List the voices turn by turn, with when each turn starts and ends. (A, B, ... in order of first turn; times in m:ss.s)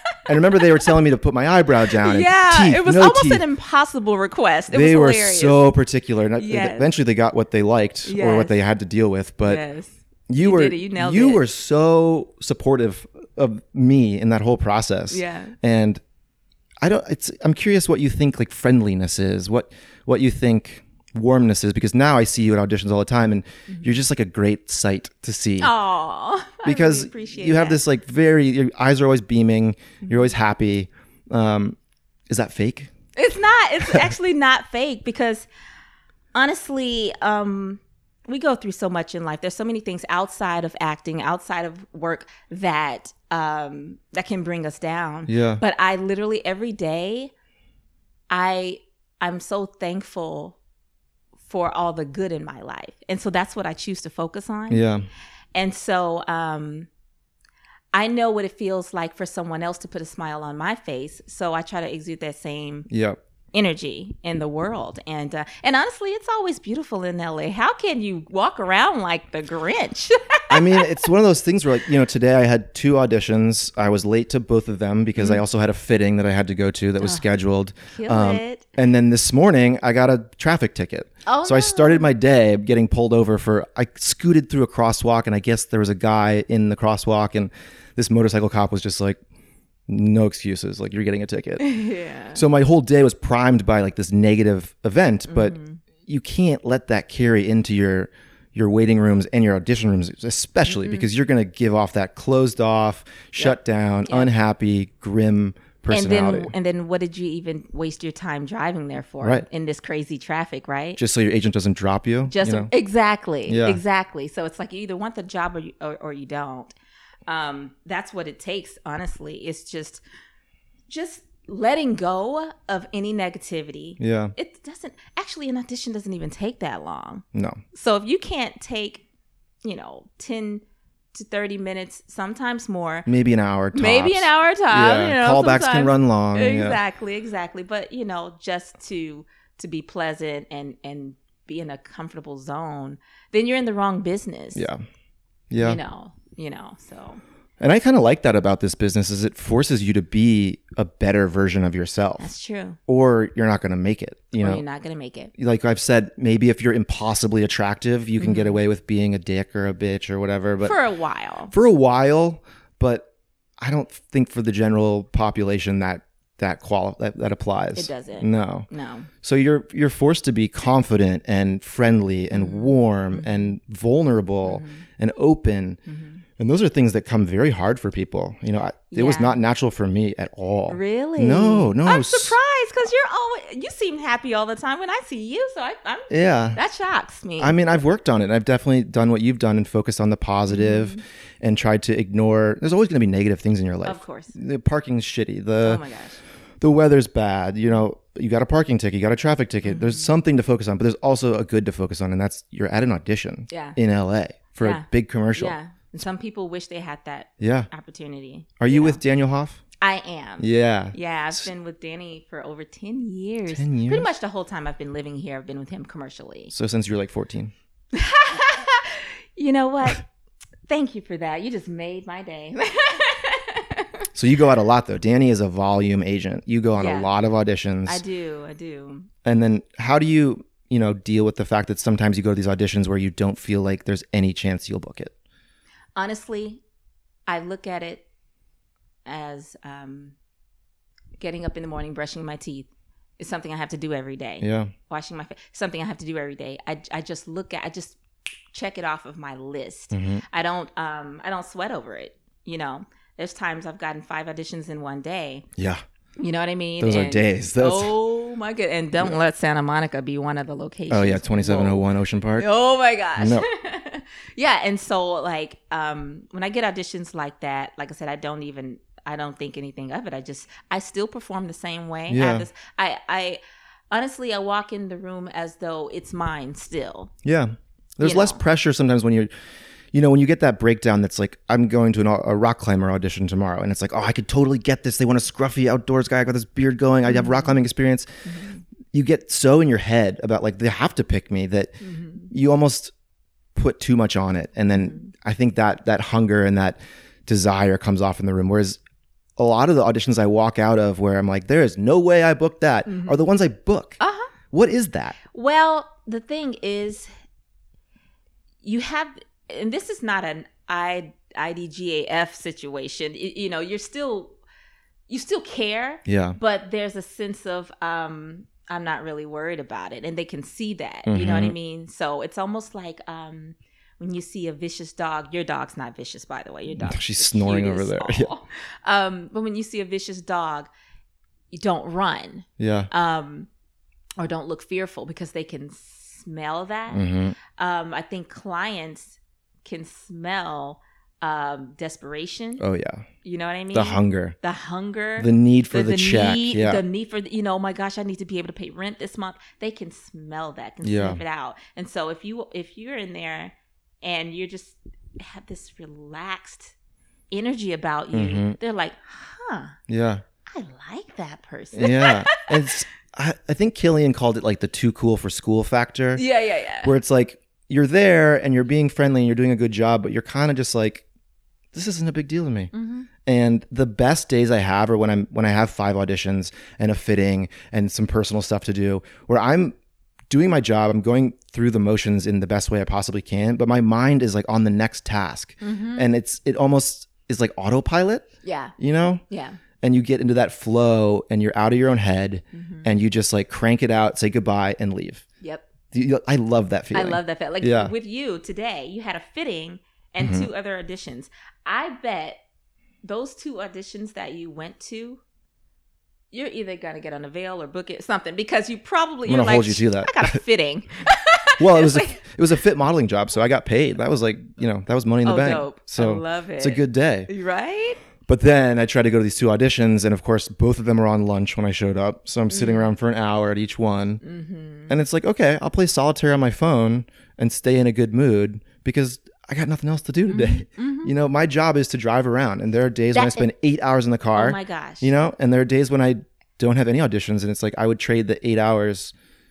0:00.2-0:03.4 A
0:02.0-0:05.7 B
0:04.7-0:09.6 A
0:06.4-0:06.9 B
0:08.0-0:08.6 B
0:09.4-0:11.4 B
0:10.3-0:16.0 A
0:15.1-0:15.5 B
0:16.8-0:25.7 A
0:25.6-0:27.8 B
0:26.6-0:31.8 A
0:32.3-0:32.9 A
0:33.2-0:35.5 B
0:36.3-0:47.3 B
0:45.3-0:45.6 A
0:48.3-0:50.6 B
0:51.4-0:54.8 B
0:54.7-0:55.1 A
0:55.5-0:56.9 B
0:57.9-1:02.9 B
1:02.9-1:03.2 A
1:03.5-1:11.0 B
1:10.5-1:29.2 A
1:15.2-1:15.4 B
1:17.0-1:17.2 B
1:17.9-1:18.7 B
1:21.2-1:22.1 B
1:29.9-1:31.6 A
1:31.6-1:32.4 B
1:32.3-1:35.6 A
1:35.3-1:35.8 B
1:36.1-1:46.5 A
1:40.6-1:41.1 B
1:43.4-1:44.3 B
1:45.9-1:51.0 B
1:51.0-1:52.7 A
1:52.3-1:56.7 B
1:53.5-1:53.8 A
1:57.3-2:00.0 B
2:00.9-2:09.0 B
2:04.0-2:04.3 A
2:07.3-2:07.6 A
2:09.6-2:10.6 B
2:11.1-2:13.1 B
2:13.1-2:16.8 A
2:13.7-2:24.7 B
2:24.5-2:24.8 A
2:25.5-2:25.8 A
2:25.6-2:27.2 B
2:27.6-2:32.3 A
2:32.2-2:32.8 B
2:32.9-2:34.6 A
2:34.3-2:35.3 B
2:35.4-2:40.8 A
2:38.2-2:38.6 B
2:40.6-2:41.5 B
2:41.5-2:43.1 A
2:43.6-2:48.7 A
2:47.8-2:49.1 B
2:49.2-2:55.8 A
2:52.3-2:53.5 B
2:54.4-2:54.8 B
2:55.8-2:56.2 B
2:56.4-3:02.4 A
2:58.9-2:59.4 B
3:00.7-3:07.8 B
3:06.1-3:06.6 A
3:07.4-3:15.8 A
3:10.5-3:11.0 B
3:13.8-3:14.3 B
3:15.6-3:16.2 B
3:16.6-3:25.5 A
3:19.6-3:20.1 B
3:23.5-3:23.8 B
3:24.6-3:29.0 B
3:27.4-3:27.7 A
3:28.6-3:29.6 A
3:29.8-3:36.5 B
3:30.4-3:31.4 A
3:33.5-3:34.0 A
3:36.5-3:37.5 A
3:37.9-3:40.1 B
3:40.7-3:44.1 B
3:44.1-3:48.0 A
3:46.8-3:47.1 B
3:47.8-3:49.1 B
3:49.2-3:55.1 A
3:56.0-3:56.6 B
3:57.3-3:58.0 B
3:59.0-4:00.1 B
4:01.2-4:08.0 B
4:04.4-4:04.7 A
4:08.5-4:15.4 B
4:09.9-4:10.2 A
4:15.6-4:15.8 A
4:16.2-4:21.8 B
4:16.8-4:17.9 A
4:20.9-4:22.5 A
4:22.4-4:37.1 B
4:23.2-4:23.5 A
4:32.1-4:32.4 A
4:37.2-4:39.3 A
4:38.0-4:38.4 B
4:39.9-4:48.1 A
4:47.1-4:47.6 B
4:48.2-4:48.6 B
4:48.9-4:51.8 A
4:51.8-4:52.3 B
4:52.3-4:52.9 A
4:53.5-4:58.8 A
4:54.7-4:55.1 B
4:59.4-5:04.0 A
5:02.9-5:03.2 B
5:04.0-5:04.3 B
5:04.5-5:05.2 A
5:05.3-5:07.1 B
5:08.6-5:14.4 B
5:15.1-5:30.7 B
5:16.0-5:16.4 A
5:21.0-5:21.5 A
5:26.7-5:28.3 A
5:31.5-5:33.5 B
5:32.6-5:32.9 A
5:34.2-5:37.0 B
5:36.9-5:37.4 A
5:37.6-5:42.6 B
5:42.6-5:43.0 A
5:43.2-5:56.7 B
5:43.7-5:44.4 A
5:45.2-5:46.8 A
5:50.8-5:51.2 A
5:57.3-5:59.8 B
5:58.1-5:58.6 A
5:59.9-6:00.2 A
6:00.4-6:02.7 B
6:01.7-6:06.2 A
6:06.2-6:06.9 B
6:06.8-6:11.0 A
6:11.7-6:12.7 A
6:12.7-6:13.1 B
6:13.2-6:19.7 A
6:20.3-6:28.3 A
6:25.6-6:26.1 B
6:28.4-6:28.7 B
6:28.8-6:29.2 A
6:29.3-6:29.6 B
6:29.8-6:35.2 A
6:32.5-6:32.9 B
6:35.9-6:37.9 A
6:36.9-6:42.4 B
6:40.2-6:40.5 A
6:43.0-6:45.2 B
6:46.3-6:52.2 B
6:49.2-6:50.4 A
6:51.6-6:57.3 A
6:55.2-6:58.0 B
6:58.3-7:04.2 A
7:02.5-7:02.9 B
7:04.2-7:04.9 B
7:04.9-7:19.1 A
7:10.3-7:11.1 B
7:13.1-7:13.5 B
7:14.3-7:15.1 B